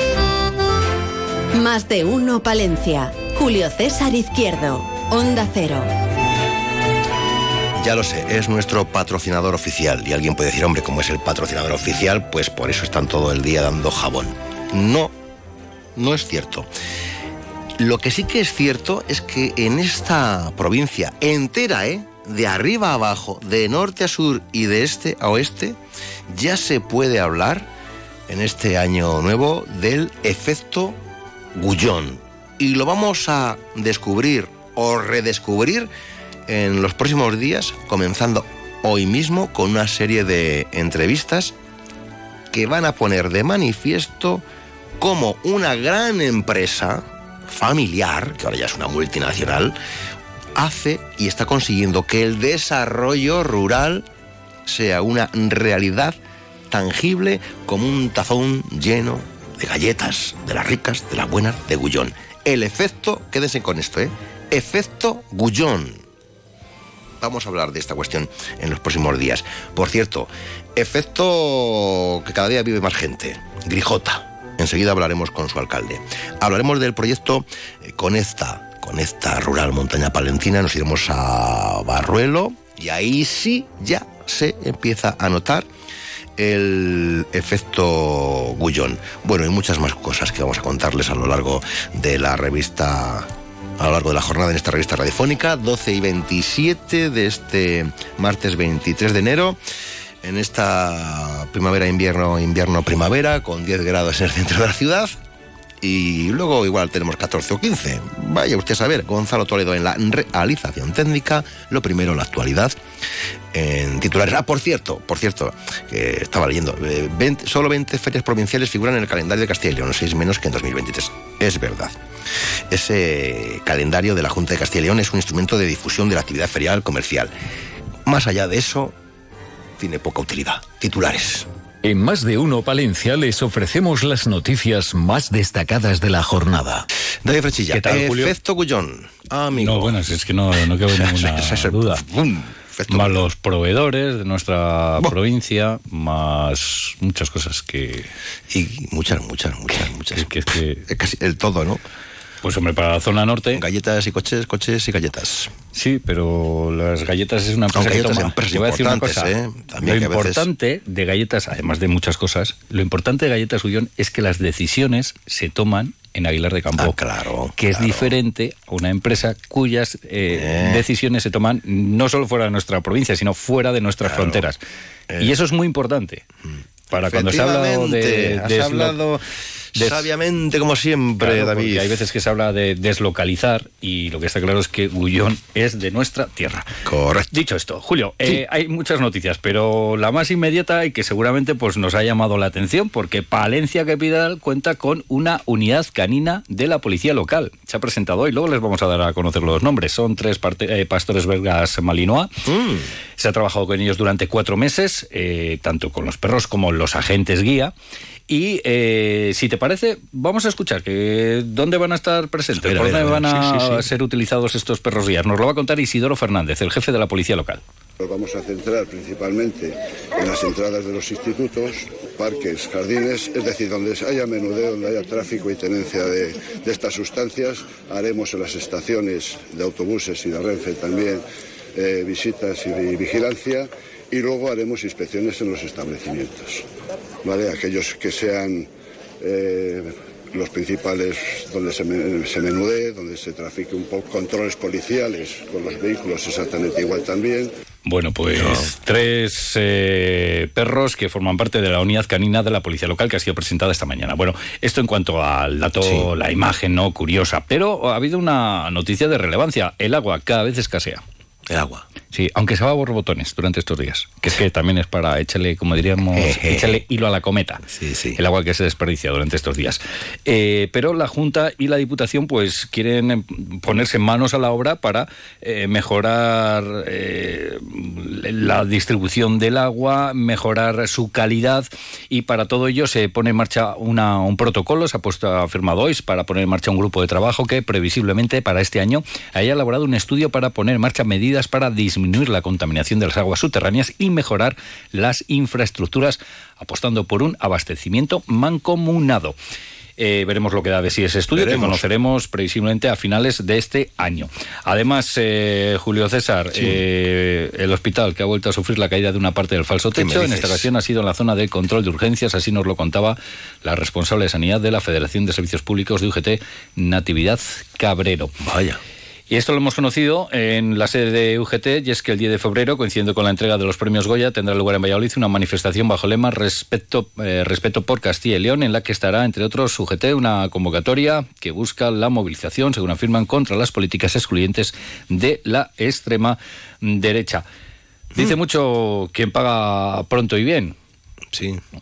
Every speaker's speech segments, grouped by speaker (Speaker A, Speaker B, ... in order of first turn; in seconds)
Speaker A: 1.5-5.9
Speaker B: 7.8-15.1, 15.9-16.7, 17.8-25.8, 26.3-27.7, 28.3-31.0, 31.5-35.9, 36.5-41.5, 42.5-44.4, 45.0-49.7, 50.5-54.0, 54.6-56.1, 56.7-66.0, 67.2-85.7, 86.4-99.6, 100.2-105.1, 105.8-112.8, 113.5-122.0, 122.7-127.3, 128.1-128.9, 129.8-131.5, 137.2-140.0, 140.9-143.2, 148.5-151.8, 153.5-155.5, 157.7-160.5, 166.7-168.1, 170.3-170.8, 174.0-174.4, 176.9-179.2, 179.8-182.0, 186.8-187.3, 202.4-202.9, 212.5-213.8, 248.3-248.7, 255.8-256.1, 261.5-261.9, 266.1-266.8, 267.7-268.2, 301.3-301.8, 309.9-310.7, 318.4-318.8, 341.3-341.6
Speaker C: 131.8-136.9
Speaker D: 137.7-138.3, 139.6-142.0, 142.9-148.1, 150.1-150.8, 152.4-153.6, 155.7-167.0, 167.6-174.6, 175.2-176.2, 176.9-179.0, 179.8-180.0, 181.2-186.7, 187.3-202.3, 203.2-207.7, 208.3-217.6, 247.8-261.0, 262.1-267.6, 268.1-299.4, 300.0-318.3, 319.3-337.4, 338.1-340.8
Speaker E: 218.0-231.2, 231.7-236.6, 237.2-238.7, 239.2-247.5